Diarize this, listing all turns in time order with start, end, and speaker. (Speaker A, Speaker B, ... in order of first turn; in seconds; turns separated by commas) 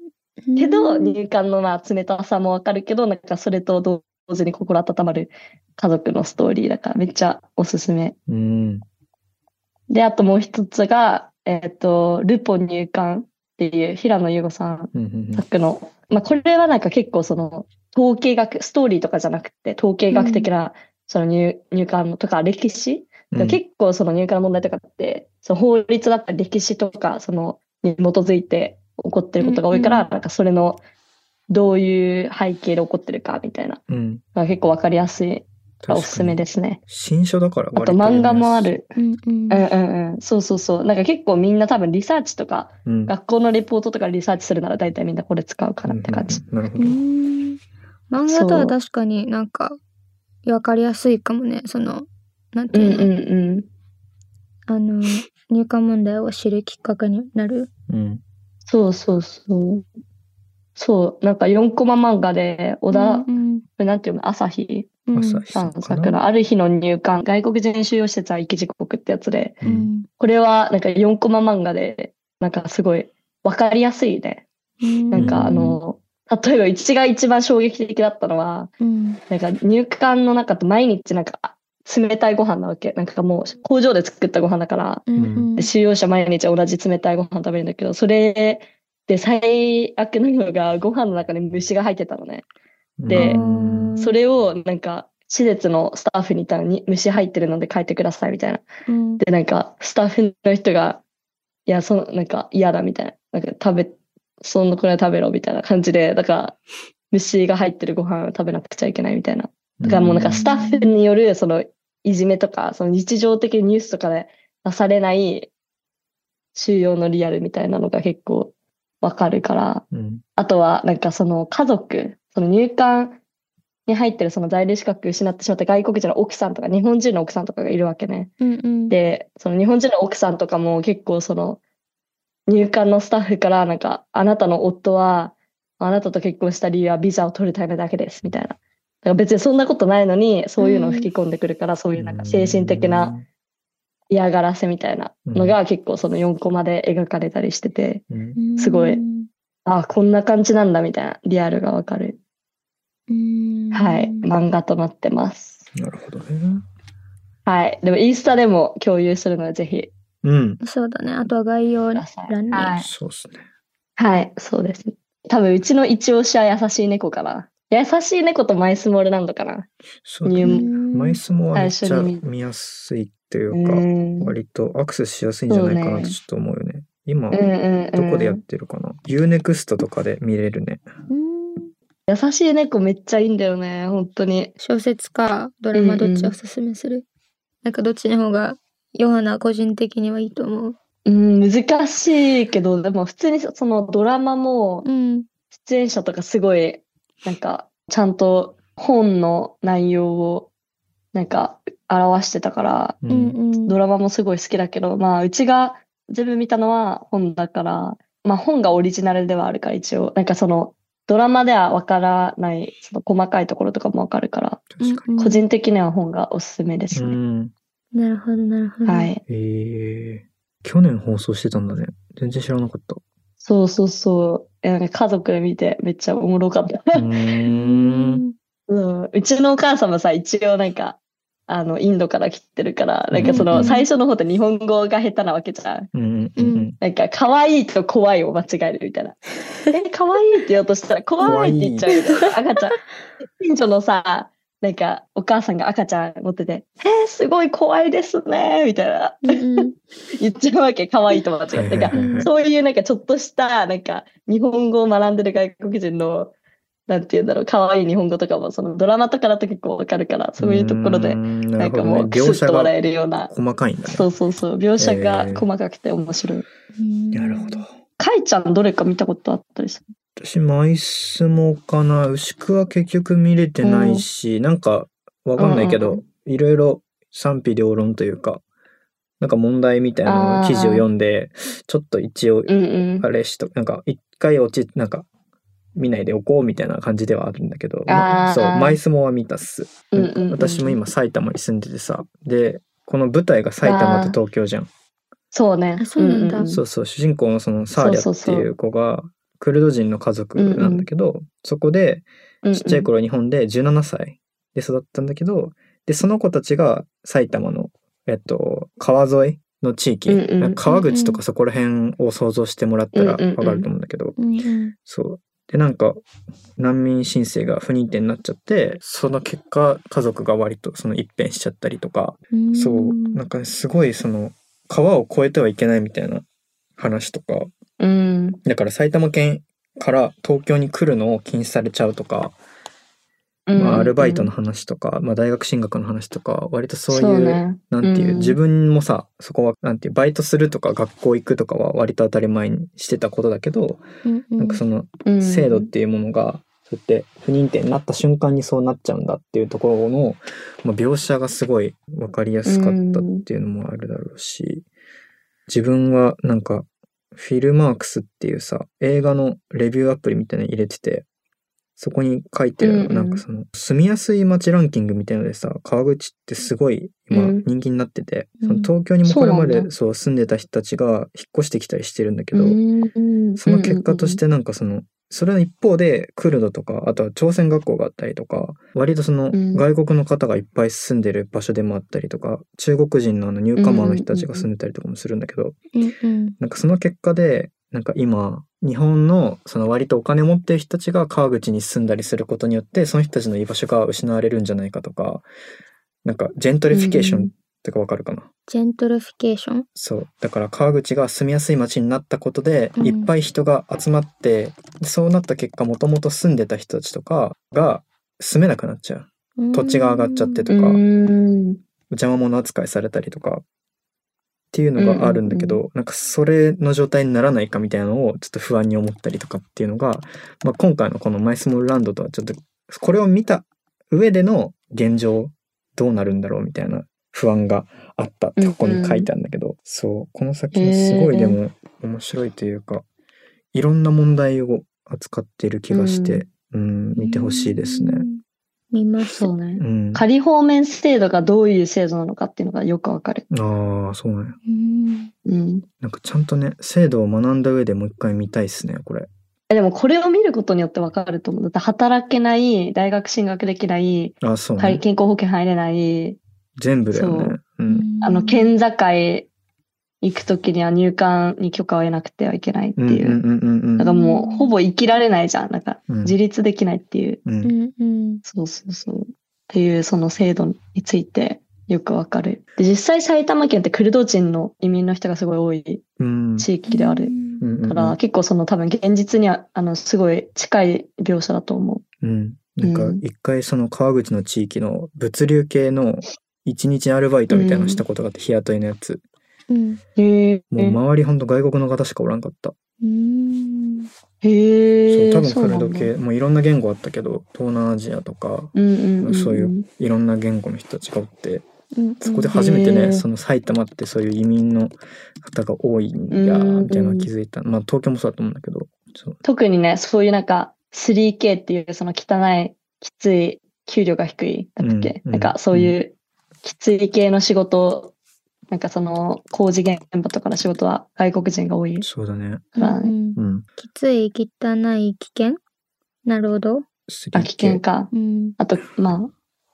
Speaker A: 0.5-1.2, Speaker B: 0.6-8.2, Speaker C: 8.3-8.8, Speaker B: 9.9-30.8, Speaker C: 14.9-15.4, Speaker A: 20.1-20.5, Speaker C: 23.3-23.6, Speaker A: 29.4-30.1, Speaker B: 31.5-33.8, Speaker C: 33.9-34.2, Speaker B: 34.3-36.8, Speaker C: 35.8-38.8, Speaker B: 37.7-38.9, Speaker A: 39.0-39.6, Speaker B: 39.5-46.4, Speaker C: 42.9-43.1, Speaker C: 45.9-47.0, Speaker A: 46.8-47.6, Speaker A: 48.1-49.8, Speaker B: 48.2-48.7, Speaker A: 50.4-53.1, Speaker B: 52.7-53.7, Speaker A: 54.7-57.7, Speaker C: 57.9-58.2, Speaker B: 58.7-59.8, Speaker B: 60.8-65.0, Speaker A: 62.9-63.6, Speaker A: 65.1-65.5, Speaker C: 65.1-66.2, Speaker B: 65.5-69.6, Speaker C: 69.6-69.9, Speaker A: 69.6-70.1, Speaker B: 70.2-74.4, Speaker A: 74.8-75.7, Speaker B: 75.1-78.7, Speaker C: 75.2-75.8, Speaker A: 78.8-79.2, Speaker B: 79.3-85.0, Speaker A: 85.1-85.7, Speaker C: 85.1-85.5, Speaker B: 85.6-92.5, Speaker C: 93.0-94.0, Speaker B: 93.1-93.4, Speaker A: 93.1-94.2, Speaker B: 94.0-98.6, Speaker A: 98.9-99.2, Speaker B: 99.2-101.0, Speaker B: 101.7-106.6, Speaker B: 107.1-115.5, Speaker C: 109.8-110.4, Speaker A: 110.3-111.0, Speaker B: 116.5-119.8, Speaker C: 119.9-120.2, Speaker B: 120.4-123.2, Speaker B: 123.9-128.3, Speaker A: 128.4-128.9, Speaker B: 128.9-131.6, Speaker B: 132.5-143.1, Speaker A: 140.6-141.1, Speaker C: 141.9-143.2, Speaker B: 144.1-148.0, Speaker C: 145.2-145.6, Speaker C: 148.1-148.4, Speaker A: 148.4-149.3, Speaker B: 148.6-149.0, Speaker B: 149.7-152.2, Speaker A: 153.1-154.2, Speaker B: 153.7-155.6, Speaker C: 155.7-156.6, Speaker B: 157.4-159.9, Speaker C: 160.2-160.6, Speaker A: 160.6-162.8, Speaker B: 161.9-162.9, Speaker C: 162.8-163.4, Speaker B: 164.0-169.7, Speaker C: 170.0-180.8, Speaker B: 170.2-170.7, Speaker A: 170.4-171.2, Speaker B: 171.5-172.2, Speaker B: 173.5-174.3, Speaker B: 175.5-176.2, Speaker B: 177.3-178.4, Speaker A: 181.1-181.7, Speaker B: 182.1-184.5, Speaker A: 184.6-187.0, Speaker B: 185.7-186.3, Speaker A: 187.6-190.8, Speaker B: 191.1-194.8, Speaker A: 194.8-195.3, Speaker B: 195.5-200.5, Speaker B: 201.1-203.0, Speaker C: 203.0-203.4, Speaker A: 203.1-203.8, Speaker B: 203.6-214.7, Speaker C: 214.7-215.1, Speaker A: 214.8-215.4, Speaker B: 215.2-217.2, Speaker C: 216.9-217.5, Speaker A: 217.9-219.1, Speaker B: 218.8-219.2, Speaker C: 219.3-223.0, Speaker B: 223.4-227.1, Speaker C: 226.9-228.2, Speaker A: 227.5-228.3, Speaker B: 228.7-235.9, Speaker C: 233.1-233.7, Speaker A: 233.3-233.9, Speaker C: 235.9-236.8, Speaker A: 236.4-236.7, Speaker B: 236.8-249.7, Speaker C: 241.2-242.2, Speaker A: 249.2-249.7, Speaker B: 250.2-256.3, Speaker C: 251.5-252.3, Speaker A: 251.9-252.3, Speaker B: 256.9-263.3, Speaker C: 260.4-262.7, Speaker C: 263.3-264.1, Speaker B: 263.9-266.5, Speaker C: 264.8-265.4, Speaker A: 266.8-267.6, Speaker C: 267.1-267.7, Speaker B: 268.0-269.9, Speaker C: 270.2-278.4, Speaker B: 273.6-274.0, Speaker B: 275.4-276.0, Speaker C: 279.2-285.1, Speaker B: 280.1-280.9, Speaker B: 282.5-283.1, Speaker C: 285.8-294.7, Speaker B: 287.9-288.8, Speaker B: 289.9-290.7, Speaker B: 293.6-294.2, Speaker B: 295.3-296.6, Speaker A: 295.8-296.5, Speaker C: 296.5-314.2, Speaker B: 297.8-298.5, Speaker B: 300.4-300.9, Speaker B: 302.4-302.9, Speaker B: 310.1-310.6, Speaker A: 310.7-311.2, Speaker B: 312.9-313.7, Speaker A: 314.2-314.7, Speaker C: 314.8-316.0, Speaker C: 316.6-326.2, Speaker A: 322.3-323.2, Speaker C: 326.8-327.5, Speaker B: 327.8-328.4, Speaker C: 328.4-332.3, Speaker B: 333.5-334.3, Speaker C: 333.5-343.8, Speaker B: 336.9-338.4, Speaker A: 344.0-344.6, Speaker C: 344.4-354.6, Speaker B: 345.0-345.7, Speaker B: 352.4-353.2, Speaker C: 355.5-361.1, Speaker C: 361.8-372.6, Speaker B: 362.6-363.2, Speaker B: 367.1-367.4, Speaker A: 368.4-368.7, Speaker B: 369.1-369.7, Speaker B: 372.3-374.2, Speaker C: 373.4-385.6, Speaker B: 379.3-379.6, Speaker B: 383.6-384.5, Speaker A: 385.7-386.4, Speaker C: 386.4-395.2, Speaker C: 396.0-398.3, Speaker B: 396.7-397.3, Speaker A: 398.5-399.6, Speaker C: 399.8-410.8, Speaker A: 402.8-403.1, Speaker A: 409.4-410.5, Speaker B: 410.5-411.6, Speaker C: 411.9-413.4, Speaker C: 414.5-432.9, Speaker B: 414.8-415.6, Speaker B: 428.4-429.1, Speaker B: 430.5-431.4, Speaker C: 433.5-438.1, Speaker B: 435.7-436.2, Speaker A: 436.9-438.2, Speaker A: 438.7-439.3, Speaker B: 439.1-443.2, Speaker C: 439.6-440.0, Speaker C: 443.3-444.4, Speaker A: 444.5-445.1, Speaker B: 445.2-445.6, Speaker C: 445.8-449.1, Speaker B: 449.5-456.2, Speaker C: 454.2-454.8, Speaker C: 456.6-457.9, Speaker B: 456.9-457.4, Speaker A: 457.7-458.5, Speaker B: 458.0-459.3, Speaker B: 460.0-463.2, Speaker C: 462.8-463.9, Speaker B: 463.8-467.2, Speaker A: 463.8-464.5, Speaker C: 465.9-466.1, Speaker C: 467.2-467.5, Speaker A: 467.4-468.2, Speaker B: 468.2-475.8, Speaker C: 476.0-476.5, Speaker B: 476.4-481.8, Speaker A: 476.7-477.4, Speaker C: 477.4-478.0, Speaker C: 482.0-489.0, Speaker B: 482.6-483.0, Speaker B: 487.3-487.8, Speaker A: 489.5-489.8, Speaker B: 490.0-490.8, Speaker C: 490.5-492.6, Speaker A: 492.8-493.9, Speaker B: 494.2-495.9, Speaker C: 494.9-501.4, Speaker B: 498.5-499.6, Speaker A: 501.8-502.3, Speaker C: 502.0-509.2, Speaker B: 502.3-503.0, Speaker B: 506.1-507.1, Speaker B: 509.2-515.9, Speaker C: 514.6-515.8, Speaker B: 516.4-517.9, Speaker B: 518.5-521.9, Speaker C: 521.8-522.5, Speaker B: 522.5-522.9, Speaker A: 522.5-525.4, Speaker C: 523.1-523.5, Speaker A: 526.0-526.6, Speaker C: 526.9-527.6, Speaker B: 527.1-529.1, Speaker A: 527.9-528.4